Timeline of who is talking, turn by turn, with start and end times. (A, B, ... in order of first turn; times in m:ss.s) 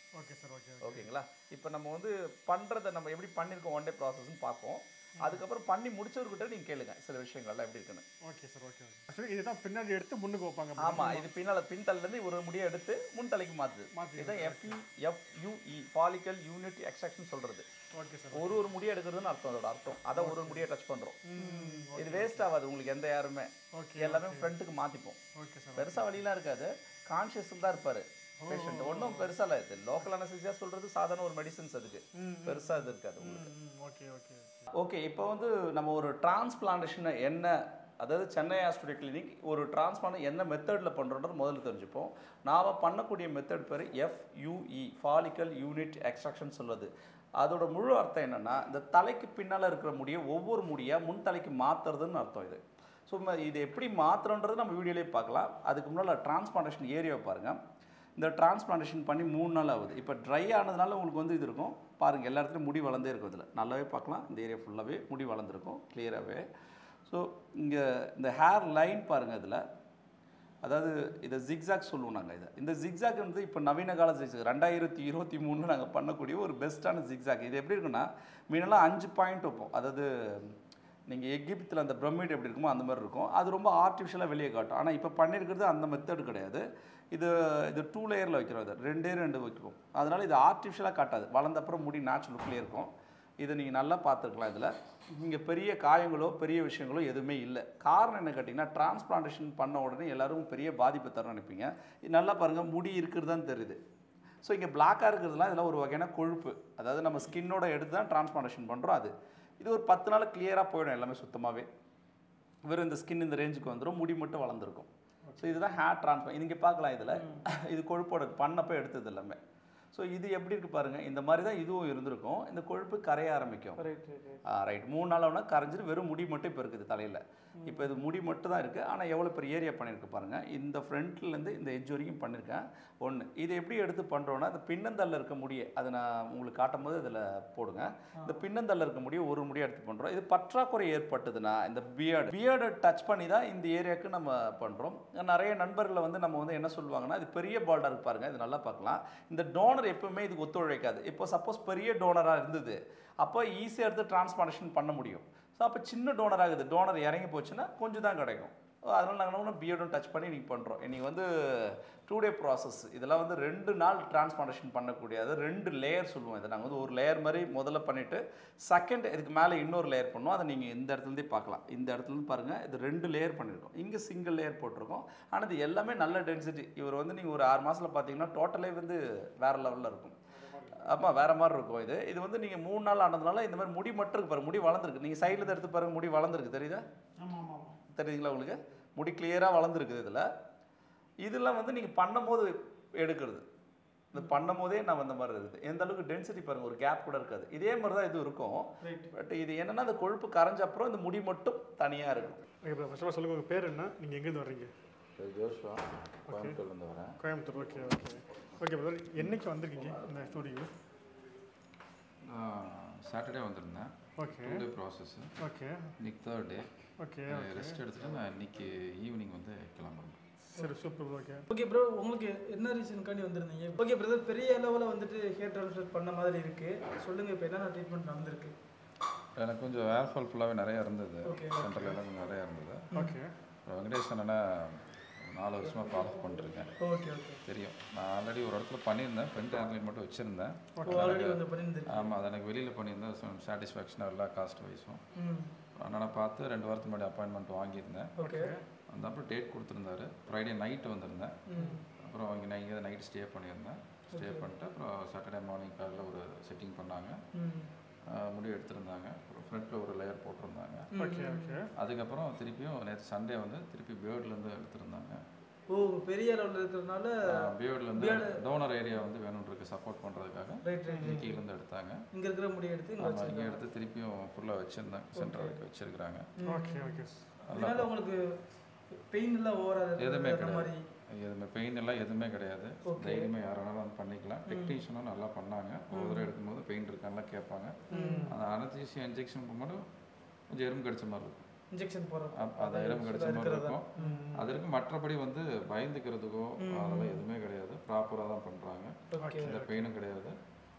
0:00.2-0:01.1 A
0:00.8-0:08.0 B
0:08.2-0:11.3 A
0:10.8-0:17.7 B
0:13.9-0:14.8 A
0:17.9-0:18.6 A
0:18.3-0:21.2 B
0:20.1-0:20.6 A
0:21.3-0:22.4 A
0:21.4-0:21.9 C
0:22.0-0:25.2 B
0:23.7-0:24.5 A
0:25.3-0:26.2 A
0:25.8-0:33.5 B
0:28.4-0:29.3 A
0:32.1-0:34.7 A
0:34.7-0:57.6 B
0:58.2-1:06.4 B
1:07.1-1:09.6 B
1:10.6-1:20.6 B
1:21.1-1:43.8 B
1:44.4-1:51.7 B
1:52.6-1:59.4 B
1:55.3-1:55.6 A
1:59.9-2:03.8 B
2:03.8-2:04.4 C
2:04.4-3:00.1 B
3:00.3-3:01.1 A
3:00.8-3:06.8 B
3:07.2-3:07.8 A
3:07.9-3:10.3 B
3:11.2-3:13.4 B
3:14.1-3:22.4 B
3:18.8-3:19.1 C
3:22.6-3:24.7 A
3:25.2-3:27.2 D
3:26.3-3:26.6 A
3:27.2-3:30.7 A
3:29.2-3:30.3 D
3:32.2-3:35.3 D
3:34.2-3:34.6 A
3:35.4-3:35.9 A
3:36.0-3:36.7 D
3:37.0-3:37.8 A
3:37.2-3:40.2 D
3:40.5-3:41.4 A
3:41.5-3:48.5 C
3:49.4-3:52.9 D
3:51.2-3:51.9 C
3:52.9-3:53.2 C
3:52.9-3:53.3 A
3:53.6-3:56.8 D
3:55.7-3:57.4 C
3:57.4-4:05.0 D
4:00.8-4:01.1 A
4:00.8-4:02.1 C
4:05.1-4:05.5 C
4:05.8-4:08.2 D
4:08.2-4:08.5 C
4:08.2-4:08.6 A
4:08.9-4:17.2 D
4:11.5-4:11.8 C
4:14.1-4:14.4 C
4:17.3-4:17.7 C
4:18.0-4:20.9 D
4:20.9-4:21.6 C
4:21.0-4:21.7 A
4:21.8-4:25.2 D
4:25.7-4:28.4 C
4:27.2-4:32.0 D
4:30.6-4:31.3 C
4:30.9-4:31.2 A
4:32.1-4:33.6 C
4:33.0-4:36.3 D
4:35.1-4:35.6 C
4:36.4-4:38.4 C
4:36.4-4:37.2 A
4:37.5-4:37.9 D
4:38.9-4:40.8 C
4:40.0-4:49.8 D
4:42.8-4:43.3 C
4:44.5-4:44.8 C
4:45.9-4:46.3 C
4:47.9-4:48.3 A
4:47.9-4:48.3 C
4:50.5-4:51.4 D
4:51.7-4:54.3 C
4:52.3-5:00.4 D
4:54.0-4:54.5 A
4:56.6-4:57.2 C
4:59.1-4:59.6 C
4:59.2-4:59.8 A